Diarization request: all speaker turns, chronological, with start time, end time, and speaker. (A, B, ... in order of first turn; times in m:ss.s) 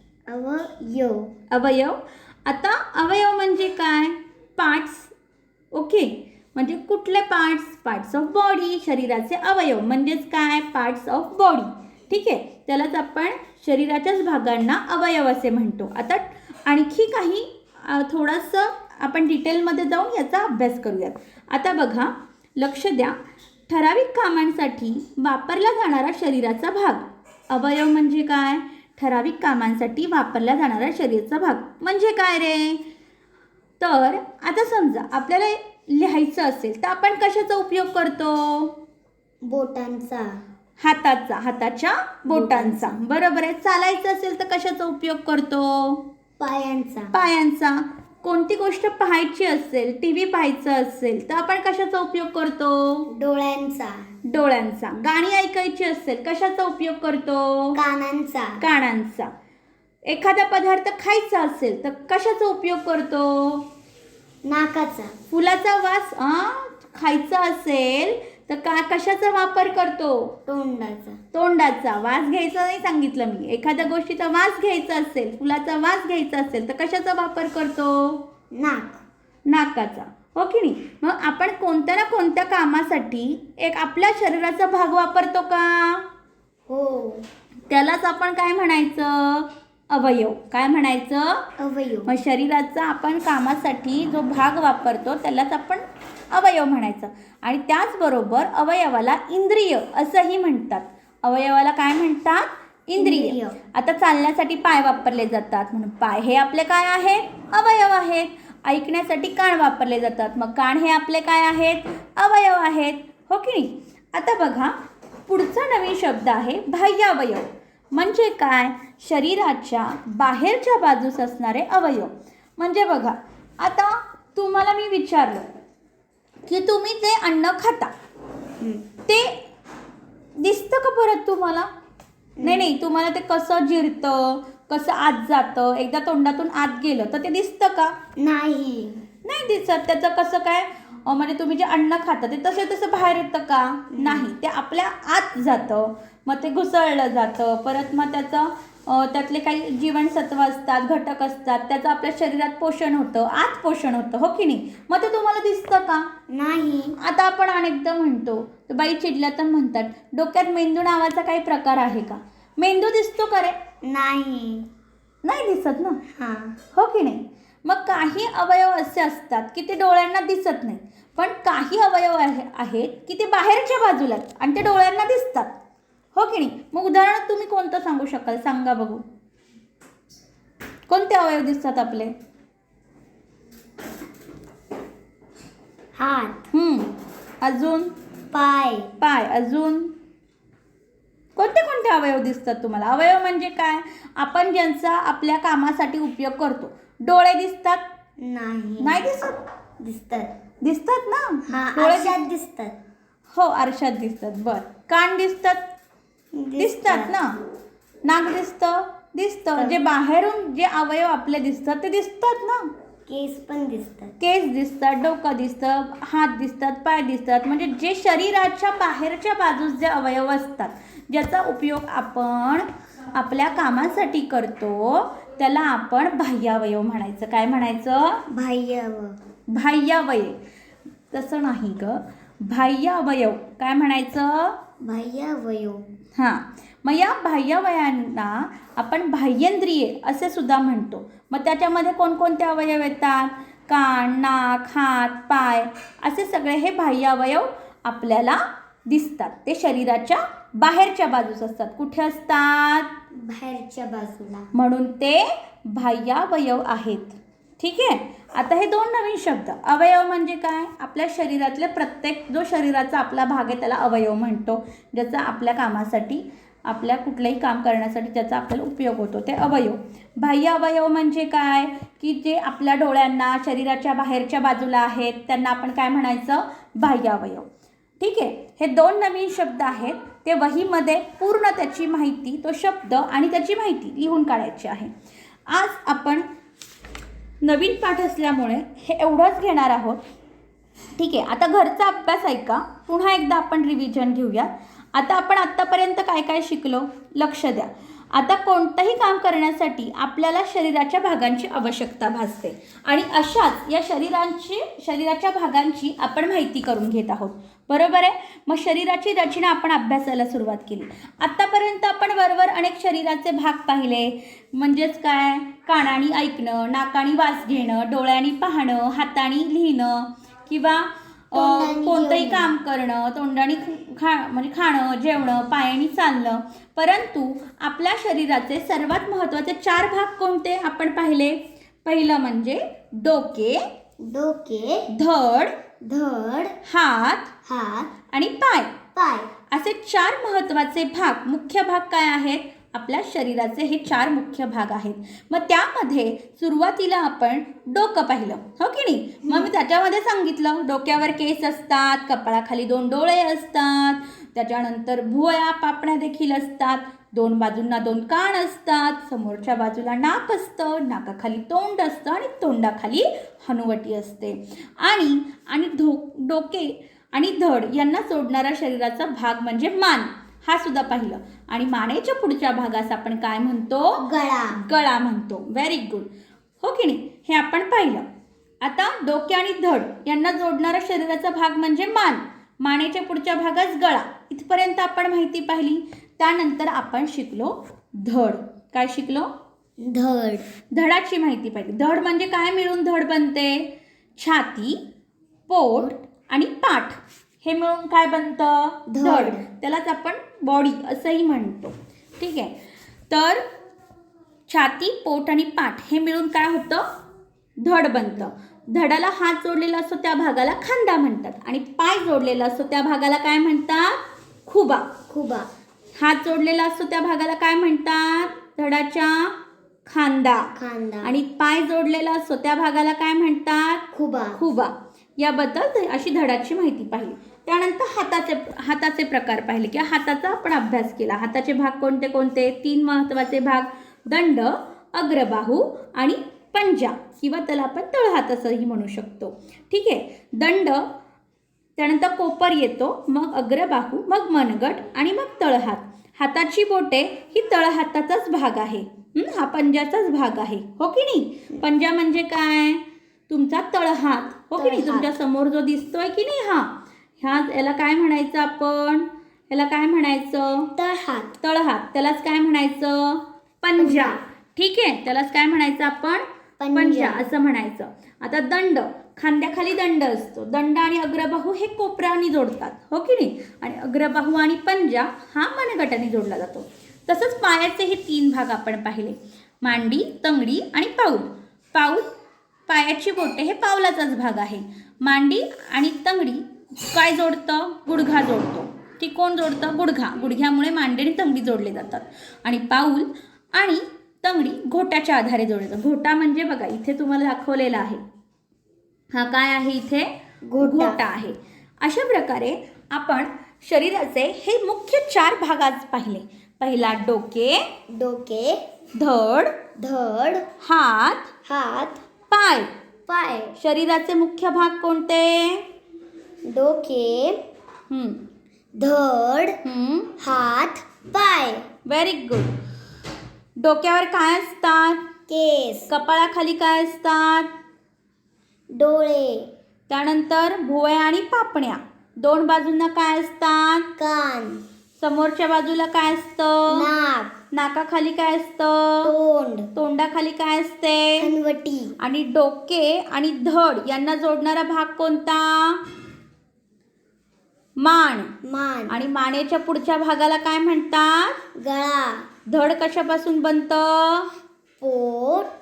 0:00.3-0:01.3 A
0:01.5-0:05.1 B
0:05.7-0:23.2 B
0:23.7-0:32.8 B
0:33.8-0:38.7 B
0:39.4-0:40.4 A
0:40.8-0:46.0 B
0:42.3-0:43.0 A
0:46.4-0:47.1 A
0:47.1-0:53.1 B
0:53.1-0:54.1 A
0:54.3-0:57.8 B
0:57.8-0:58.6 A
0:58.6-0:59.3 B
1:00.1-1:03.7 B
1:04.4-1:05.2 A
1:05.3-1:10.4 B
1:10.5-1:11.2 A
1:11.3-1:18.2 B
1:18.5-1:19.0 A
1:19.5-1:26.0 B
1:26.7-1:27.2 A
1:27.7-1:31.4 B
1:31.6-1:32.1 A
1:32.1-1:54.7 B
1:43.0-1:43.6 A
1:55.3-2:05.4 B
2:06.5-2:07.9 B
2:08.6-2:08.9 A
2:09.1-2:09.4 B
2:10.4-2:11.7 B
2:12.4-2:12.7 A
2:12.4-2:17.9 B
2:18.2-2:19.0 A
2:19.2-2:36.1 B
2:23.9-2:24.3 A
2:36.3-2:37.0 A
2:37.0-2:43.6 B
2:43.8-2:44.7 A
2:45.2-2:46.0 B
2:46.2-2:46.6 A
2:46.7-2:55.6 B
2:56.2-2:59.0 B
3:00.9-3:02.1 B
3:06.0-3:06.5 A
3:06.5-3:07.9 B
3:08.3-3:08.9 A
3:09.0-3:09.9 B
3:11.4-3:17.8 B
3:18.2-3:19.1 A
3:18.8-3:19.4 B
3:19.8-3:20.3 A
3:20.6-3:22.2 B
3:21.5-3:22.8 A
3:23.3-3:25.6 B
3:26.3-3:27.2 A
3:26.6-3:27.4 B
3:28.1-3:32.7 B
3:33.1-3:34.2 A
3:34.2-3:48.2 B
3:48.3-3:49.2 A
3:49.5-3:50.4 B
3:51.1-3:54.6 B
3:54.8-3:55.8 A
3:56.2-4:12.9 B
4:13.1-4:14.5 A
4:14.5-4:37.5 B
4:38.0-4:44.9 B
4:45.5-4:46.3 B
4:47.4-4:50.0 B
4:51.0-5:33.6 B
5:21.3-5:22.5 A
5:34.0-5:34.9 A
5:34.9-5:35.5 B
5:35.8-5:36.6 A
5:36.6-5:37.3 B
5:37.4-5:37.9 A
5:38.1-5:38.8 B
5:39.0-5:39.3 A
5:39.5-6:16.1 B
6:14.0-6:14.6 A
6:16.6-6:18.0 B
6:18.6-6:29.3 B
6:29.8-6:30.5 A
6:30.7-6:34.8 B
6:35.5-6:42.6 B
6:38.9-6:39.4 A
6:43.1-6:43.4 B
6:44.5-6:46.8 B
6:47.6-6:54.9 B
6:55.1-6:55.5 A
6:56.0-6:59.4 B
6:59.9-7:00.5 B
7:00.6-7:01.1 A
7:01.0-7:20.9 B
7:03.9-7:04.4 A
7:21.8-7:40.7 B
7:34.6-7:35.1 A
7:40.8-7:41.4 A
7:41.4-8:02.1 B
7:43.8-7:44.2 A
7:46.6-7:47.3 A
8:02.7-8:18.0 B
8:19.1-8:27.6 B
8:20.5-8:21.0 A
8:27.9-8:28.6 A
8:29.0-8:29.6 B
8:29.8-8:30.5 A
8:30.6-8:31.3 B
8:31.4-8:32.0 A
8:32.3-8:32.7 B
8:33.1-8:33.6 A
8:33.6-8:35.6 B
8:36.5-8:37.4 A
8:37.9-8:38.2 B
8:38.8-8:39.6 A
8:39.6-8:40.1 B
8:40.2-8:41.7 A
8:41.9-8:42.5 B
8:43.6-8:45.0 B
8:45.3-8:45.9 A
8:45.9-8:47.5 B
8:48.7-8:49.5 A
8:49.9-8:53.9 B
8:54.0-8:54.6 A
8:55.0-8:56.9 B
8:56.7-8:57.3 A
8:57.5-8:59.1 B
8:59.0-8:59.7 A
8:59.8-9:01.3 B
9:01.2-9:02.0 A
9:02.0-9:05.8 B
9:07.8-9:08.3 B
9:08.4-9:09.0 A
9:08.9-9:11.4 B
9:11.6-9:12.3 A
9:12.5-9:14.3 B
9:14.8-9:15.5 A